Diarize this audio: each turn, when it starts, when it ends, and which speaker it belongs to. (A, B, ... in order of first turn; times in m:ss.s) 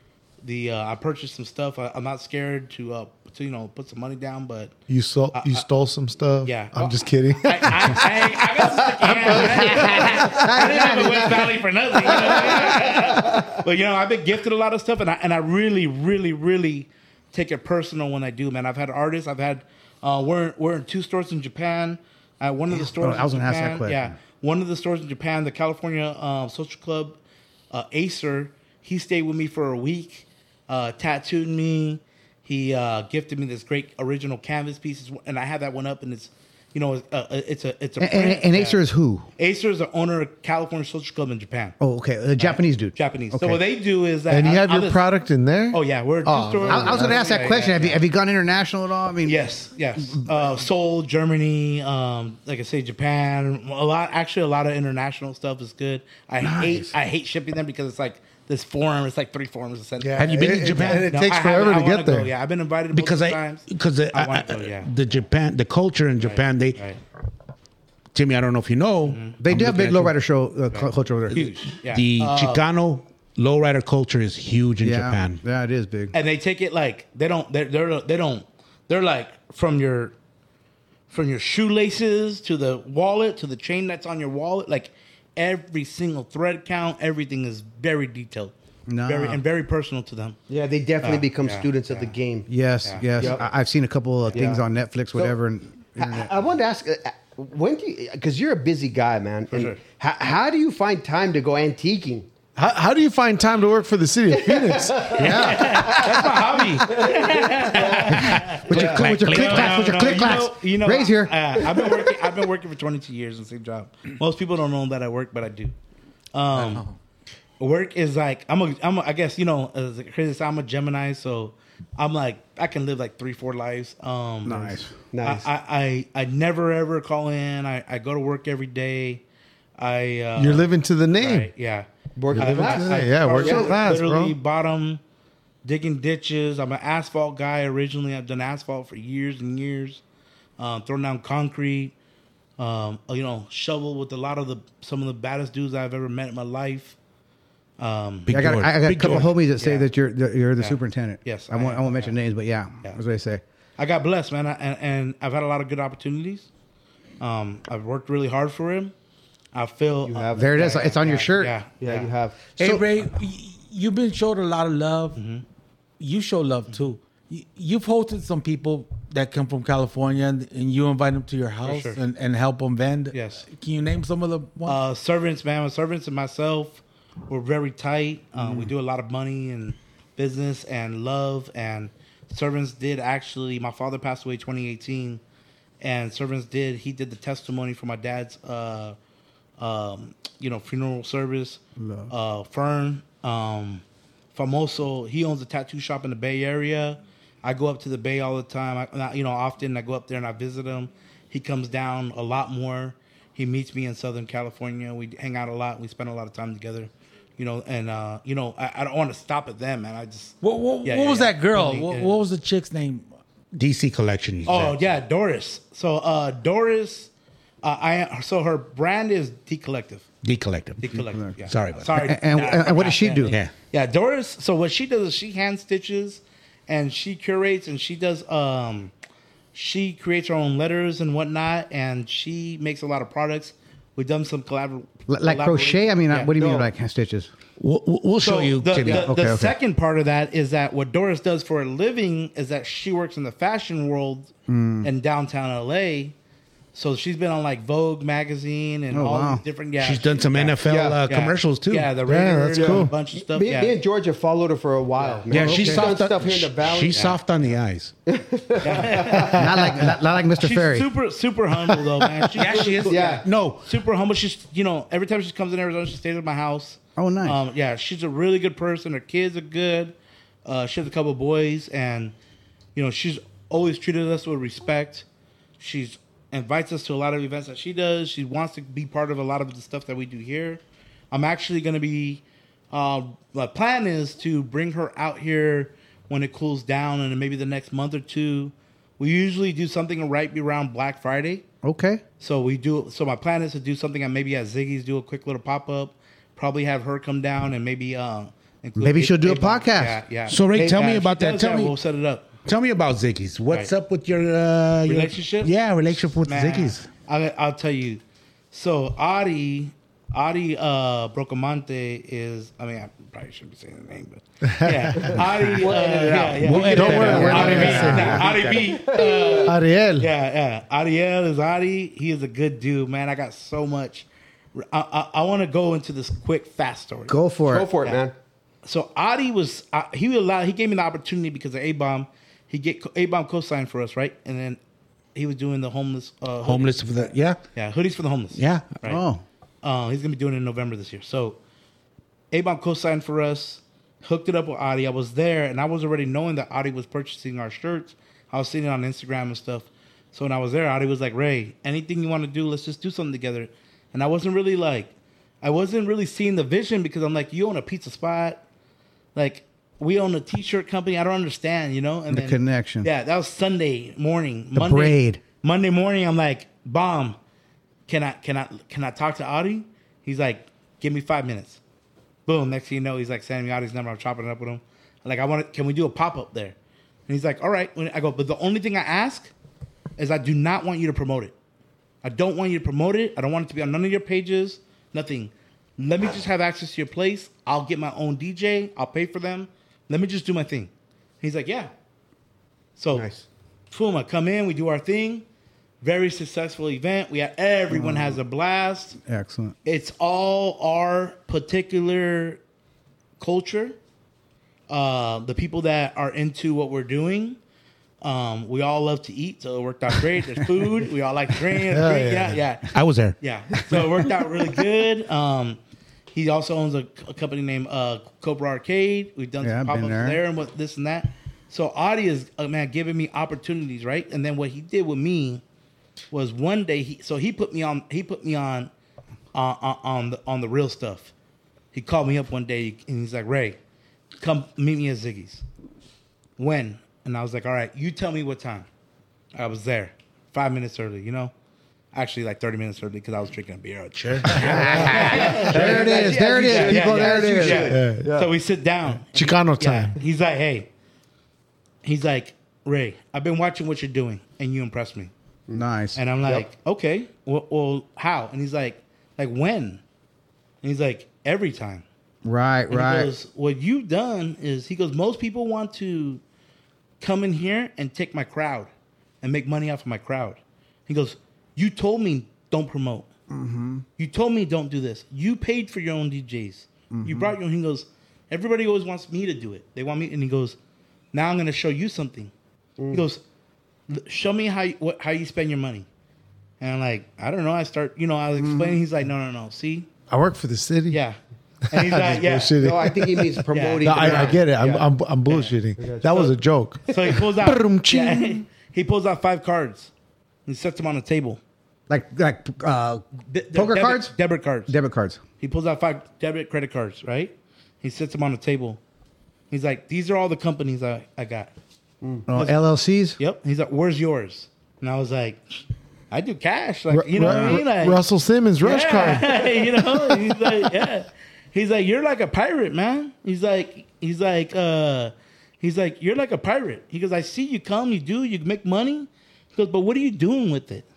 0:00.4-0:04.7 A
0:04.9-0:08.3 B
0:05.3-0:05.6 A
0:06.4-0:27.2 A
0:09.0-0:09.6 B
0:09.3-0:11.5 C
0:12.1-0:12.8 C
0:22.7-0:24.1 C
0:27.7-0:38.8 A
0:38.0-0:39.3 C
0:39.4-0:41.8 A
0:41.8-0:43.6 C
0:42.4-0:45.1 A
0:44.3-0:47.3 B
0:45.7-0:48.0 A
0:46.6-0:49.4 C
0:49.2-1:00.3 A
0:50.0-0:50.3 C
0:56.4-0:56.9 C
1:00.0-1:02.3 B
1:00.2-1:01.1 D
1:00.9-1:04.9 A
1:02.9-1:06.8 D
1:06.2-1:07.0 A
1:08.1-1:10.1 D
1:09.0-1:09.4 A
1:09.4-1:11.4 C
1:10.7-1:12.6 A
1:11.3-1:15.4 D
1:14.8-1:16.1 C
1:16.1-1:20.1 A
1:21.1-1:28.5 A
1:28.9-1:29.4 C
1:29.0-1:30.4 A
1:30.5-1:32.5 E
1:31.0-1:32.1 A
1:32.5-1:36.3 C
1:32.8-1:33.4 A
1:33.1-1:33.4 E
1:34.3-1:34.5 A
1:34.3-1:34.6 E
1:36.0-1:42.3 E
1:39.5-1:39.8 A
1:42.6-1:45.3 B
1:44.3-1:48.2 E
1:45.2-1:46.0 C
1:45.2-1:55.7 A
1:48.1-1:51.8 C
1:48.5-1:50.2 D
1:48.7-1:49.0 E
1:56.3-1:56.9 A
1:57.6-2:09.2 A
2:04.4-2:04.9 C
2:05.1-2:05.5 E
2:09.8-2:15.0 A
2:10.4-2:11.5 B
2:12.2-2:13.8 E
2:12.3-2:14.4 B
2:15.6-2:20.0 A
2:20.6-2:21.9 A
2:22.6-2:27.0 A
2:27.8-2:29.9 A
2:28.3-2:29.3 D
2:28.3-2:33.4 C
2:30.6-2:32.2 A
2:33.8-2:36.5 A
2:37.2-2:38.9 A
2:39.5-2:42.1 A
2:40.0-2:40.8 E
2:40.3-2:41.5 C
2:41.8-2:42.4 E
2:42.5-2:42.8 C
2:42.6-2:45.2 F
2:45.1-2:45.4 A
2:46.0-2:54.8 F
2:51.6-2:52.0 A
2:53.1-2:53.4 A
2:54.6-3:05.2 A
3:05.8-3:09.0 A
3:09.6-3:13.8 A
3:11.8-3:12.1 C
3:14.3-3:32.1 A
3:30.4-3:33.1 F
3:33.5-3:34.8 D
3:34.4-3:37.1 A
3:37.6-3:40.0 A
3:40.2-3:42.0 D
3:40.8-3:48.9 A
3:41.9-3:43.4 C
3:43.3-3:43.5 D
3:49.5-3:56.3 A
3:55.1-3:57.3 C
3:56.3-3:56.7 E
3:57.6-3:59.1 D
3:58.2-4:04.3 A
3:58.9-3:59.5 C
4:04.5-4:04.9 C
4:04.8-4:06.1 A
4:06.7-4:13.7 A
4:08.9-4:09.4 C
4:09.8-4:11.9 D
4:10.6-4:11.0 E
4:12.0-4:13.0 B
4:12.5-4:17.1 E
4:15.0-4:15.5 A
4:15.3-4:17.9 D
4:15.3-4:15.9 C
4:16.9-4:17.6 A
4:18.1-4:19.4 E
4:18.6-4:32.1 A
4:19.3-4:20.9 C
4:22.3-4:23.1 F
4:22.6-4:23.7 D
4:22.9-4:23.3 E
4:27.0-4:27.4 C
4:32.7-4:35.0 A
4:35.6-4:51.4 A
4:51.6-4:52.0 C
4:52.2-5:02.2 A
4:58.8-5:00.0 C
5:00.3-5:01.7 D
5:02.4-5:06.9 D
5:04.8-5:05.5 A
5:06.1-5:08.0 A
5:08.5-5:27.2 A
5:14.6-5:15.2 B
5:15.6-5:16.3 E
5:15.9-5:18.1 D
5:16.0-5:18.5 B
5:16.4-5:18.0 F
5:16.9-5:18.3 C
5:18.2-5:19.6 E
5:19.4-5:20.1 B
5:27.1-5:27.7 C
5:27.4-5:28.1 E
5:28.6-5:34.6 A
5:35.1-5:39.0 A
5:36.4-5:37.4 D
5:38.4-5:38.7 D
5:38.8-5:39.2 C
5:39.6-5:41.4 A
5:42.3-5:58.4 A
5:59.1-6:07.2 A
6:02.1-6:02.9 C
6:04.5-6:05.2 C
6:07.9-6:11.6 A
6:12.2-6:16.5 A
6:17.1-6:19.3 A
6:20.0-6:21.3 A
6:22.0-6:30.7 A
6:31.2-6:31.7 A
6:32.8-6:33.1 A
6:32.9-6:33.2 E
6:33.7-6:35.2 A
6:35.8-6:39.0 A
6:37.7-6:38.2 C
6:39.0-6:39.6 C
6:39.6-6:42.4 A
6:43.2-6:43.8 A
6:44.7-6:47.4 A
6:48.0-6:55.6 A
6:51.6-6:52.4 B
6:52.7-6:54.0 D
6:56.1-7:05.4 A
6:59.4-7:00.2 C
7:06.1-7:08.7 A
7:09.3-7:11.1 A
7:11.7-7:13.6 A
7:14.2-7:15.4 A
7:16.4-7:18.7 A
7:19.3-7:21.3 A
7:21.9-7:30.7 A
7:23.9-7:25.5 D
7:24.2-7:25.8 B
7:24.4-7:27.8 C
7:25.4-7:28.3 E
7:27.5-7:28.1 B
7:28.9-7:30.0 B
7:31.8-7:35.1 A
7:35.5-7:36.0 C
7:35.9-7:39.8 A
7:40.6-7:41.8 A
7:42.2-7:43.1 C
7:42.7-7:46.2 A
7:47.0-7:48.7 A
7:49.2-7:53.1 A
7:53.3-7:53.8 C
7:54.0-8:00.6 A
7:56.9-7:57.4 C
8:01.1-8:02.3 A
8:02.8-8:03.0 E
8:02.9-8:03.2 A
8:03.9-8:05.9 A
8:06.6-8:09.9 A
8:08.4-8:08.8 C
8:10.1-8:11.0 B
8:10.9-8:11.2 A
8:11.7-8:12.6 A
8:11.7-8:17.5 B
8:12.5-8:14.9 E
8:13.5-8:14.5 A
8:15.3-8:15.6 A
8:15.8-8:16.4 E
8:16.9-8:19.9 A
8:17.4-8:17.8 D
8:20.4-8:21.4 A
8:21.9-8:24.1 C
8:23.3-8:24.7 A
8:24.7-8:25.2 C
8:25.4-8:28.8 A
8:29.5-8:31.5 A
8:32.0-8:32.3 E
8:32.3-8:33.2 C
8:33.2-8:38.0 A
8:36.9-8:40.7 B
8:37.2-8:37.6 C
8:38.6-8:50.8 A